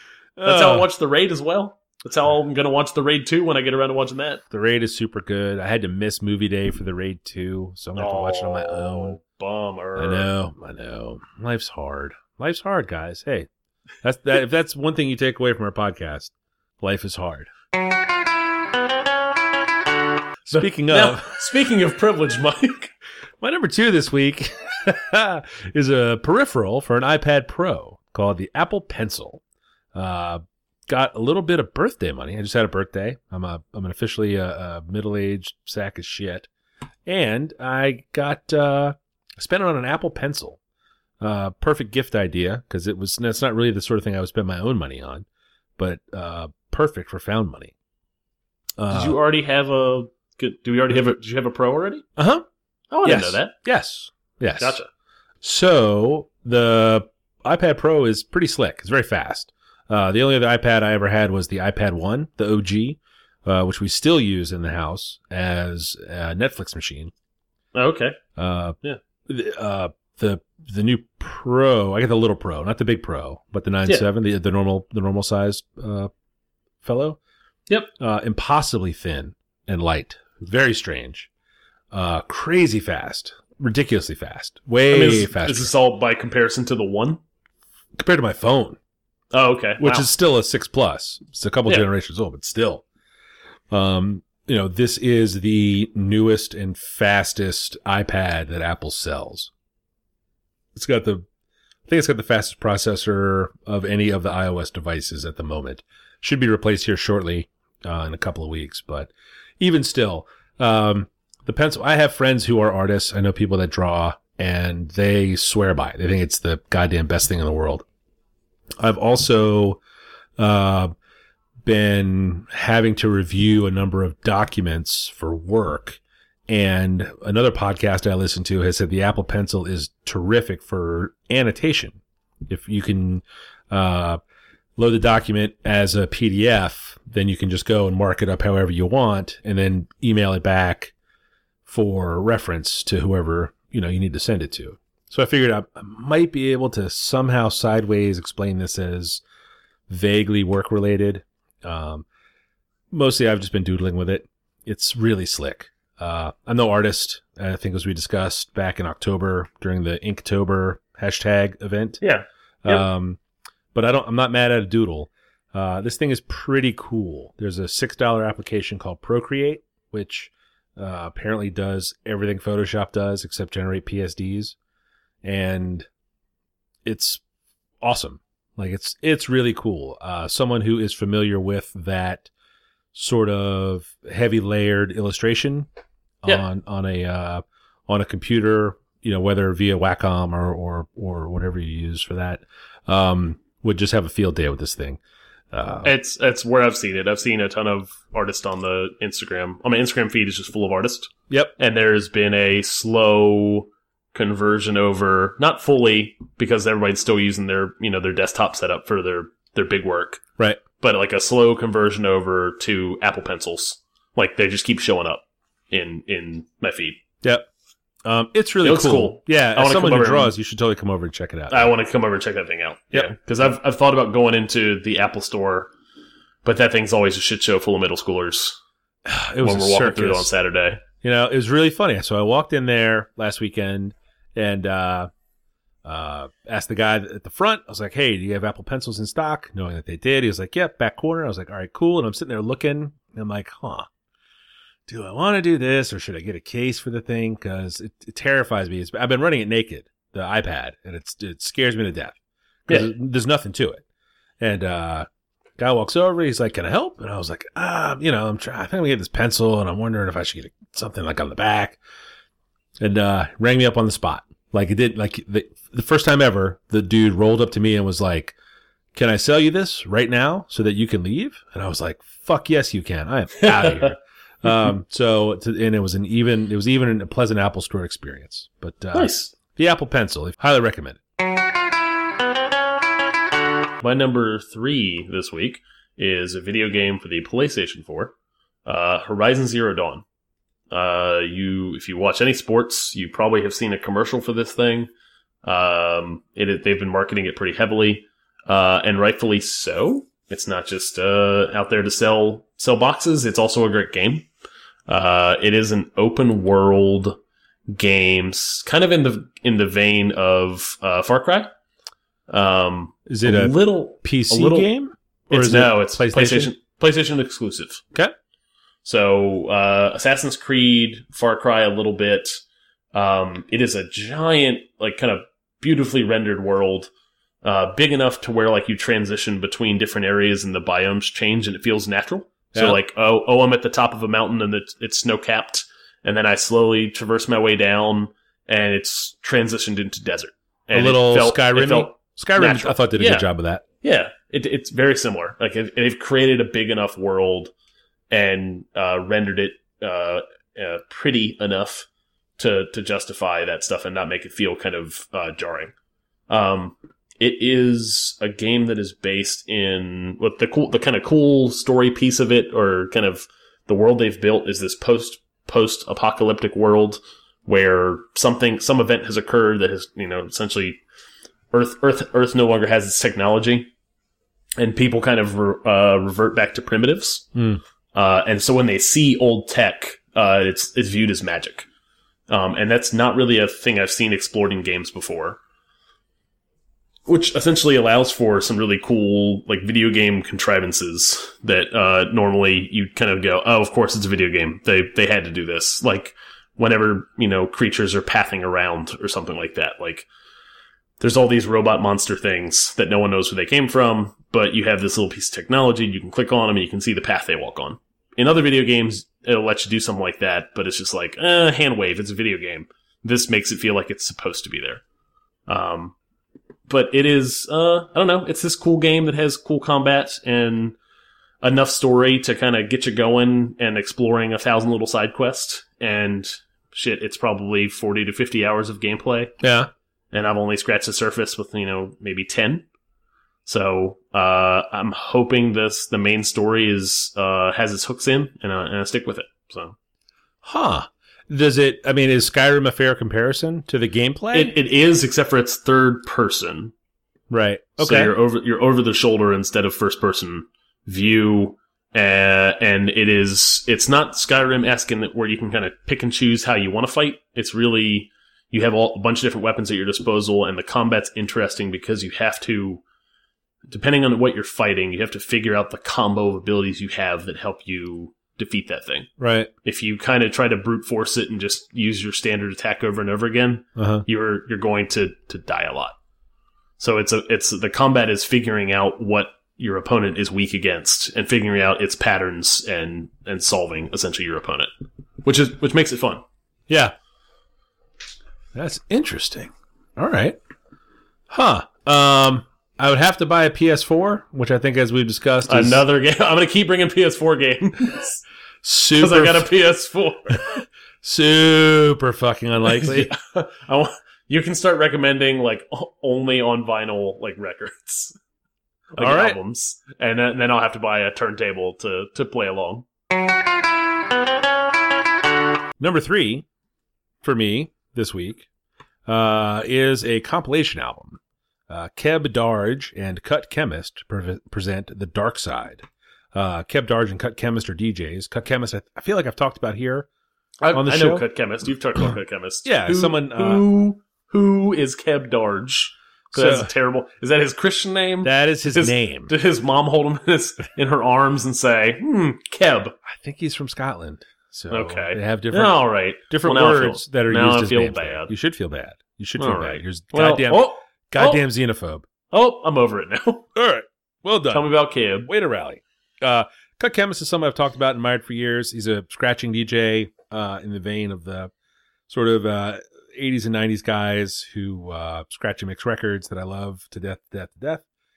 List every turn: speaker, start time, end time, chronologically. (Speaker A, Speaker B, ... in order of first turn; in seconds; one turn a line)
Speaker A: 0.4-0.9
Speaker B: 0.4-4.4
Speaker A: 4.5-9.2
Speaker B: 8.0-10.3
Speaker A: 10.0-13.5
Speaker A: 14.0-17.5
Speaker A: 20.5-21.5
Speaker B: 20.5-22.9
Speaker A: 23.4-29.4
Speaker A: 29.9-36.5
Speaker A: 37.1-40.6
Speaker A: 41.2-45.3
Speaker A: 45.8-47.7
Speaker A: 48.8-49.2
Speaker B: 48.9-52.0
Speaker A: 52.2-52.5
Speaker B: 52.9-53.5
Speaker A: 53.0-54.8
Speaker B: 54.6-54.9
Speaker A: 55.4-67.1
Speaker B: 67.8-68.2
Speaker A: 68.4-76.1
Speaker A: 76.8-77.2
Speaker A: 78.0-81.3
Speaker A: 81.9-85.7
Speaker B: 84.9-87.2
Speaker A: 88.0-88.8
Speaker B: 89.3-90.1
Speaker A: 89.8-92.8
Speaker A: 93.7-99.5
Speaker A: 100.8-101.2
Speaker A: 101.9-117.8
Speaker A: 118.8-119.8
Speaker A: 120.4-120.9
Speaker A: 121.6-134.2
Speaker A: 134.8-140.9
Speaker A: 141.7-149.2
Speaker A: 149.9-152.1
Speaker A: 152.9-162.0
Speaker B: 162.0-162.8
Speaker A: 162.6-163.2
Speaker A: 163.7-174.6
Speaker A: 175.2-175.9
Speaker A: 176.8-177.2
Speaker A: 177.8-182.3
Speaker A: 182.9-185.7
Speaker A: 186.2-195.0
Speaker A: 195.5-195.9
Speaker B: 195.8-210.2
Speaker B: 210.8-217.0
Speaker A: 218.1-221.7
Speaker B: 218.6-220.3
Speaker B: 221.5-225.7
Speaker B: 226.4-228.6
Speaker A: 229.1-230.3
Speaker B: 229.4-230.8
Speaker A: 231.0-235.1
Speaker A: 235.8-243.9
Speaker A: 244.9-252.2
Speaker A: 252.7-253.8
Speaker A: 254.4-255.1
Speaker A: 255.6-261.8
Speaker A: 262.8-268.4
Speaker A: 268.9-281.0
Speaker B: 273.4-273.9
Speaker B: 278.9-279.3
Speaker B: 283.8-288.1
Speaker B: 288.7-290.0
Speaker B: 290.7-294.9
Speaker B: 295.4-304.3
Speaker B: 304.9-307.2
Speaker B: 307.7-311.5
Speaker B: 312.3-314.7
Speaker A: 313.1-316.5
Speaker B: 315.3-317.8
Speaker B: 318.8-322.4
Speaker B: 322.9-326.9
Speaker B: 327.4-343.3
Speaker A: 332.5-332.8
Speaker A: 340.7-343.6
Speaker B: 343.8-347.5
Speaker B: 348.1-351.9
Speaker B: 352.4-355.7
Speaker B: 356.3-370.8
Speaker B: 371.5-373.7
Speaker B: 374.6-377.3
Speaker A: 377.4-377.6
Speaker B: 377.9-381.7
Speaker B: 382.3-385.4
Speaker B: 387.1-400.1
Speaker B: 401.0-414.8
Speaker B: 415.5-415.9
Speaker B: 416.7-420.8
Speaker B: 421.4-429.4
Speaker A: 429.4-429.7
Speaker B: 430.1-432.6
Speaker B: 433.4-439.8
Speaker A: 440.4-444.6
Speaker B: 444.3-446.7
Speaker A: 447.3-448.1
Speaker B: 447.8-462.8
Speaker B: 463.7-469.1
Speaker A: 469.2-469.5
Speaker B: 469.6-475.9
Speaker A: 473.8-474.1
Speaker B: 476.8-484.7
Speaker B: 485.2-486.2
Speaker A: 486.7-486.9
Speaker A: 488.5-490.4
Speaker A: 491.3-495.8
Speaker B: 495.5-498.2
Speaker A: 498.6-499.5
Speaker B: 499.0-500.6
Speaker A: 501.0-503.1
Speaker B: 502.7-508.2
Speaker B: 508.9-512.9
Speaker A: 509.0-509.4
Speaker A: 515.8-516.5
Speaker A: 517.2-518.5
Speaker A: 519.1-530.1
Speaker B: 530.6-543.0
Speaker A: 530.7-531.3
Speaker A: 532.6-533.7
Speaker A: 536.3-536.7
Speaker A: 538.2-539.3
Speaker A: 543.1-552.0
Speaker B: 544.7-548.3
Speaker B: 549.4-551.4
Speaker B: 552.3-553.5
Speaker A: 553.5-554.7
Speaker B: 554.5-555.3
Speaker A: 555.2-561.5
Speaker A: 562.1-567.8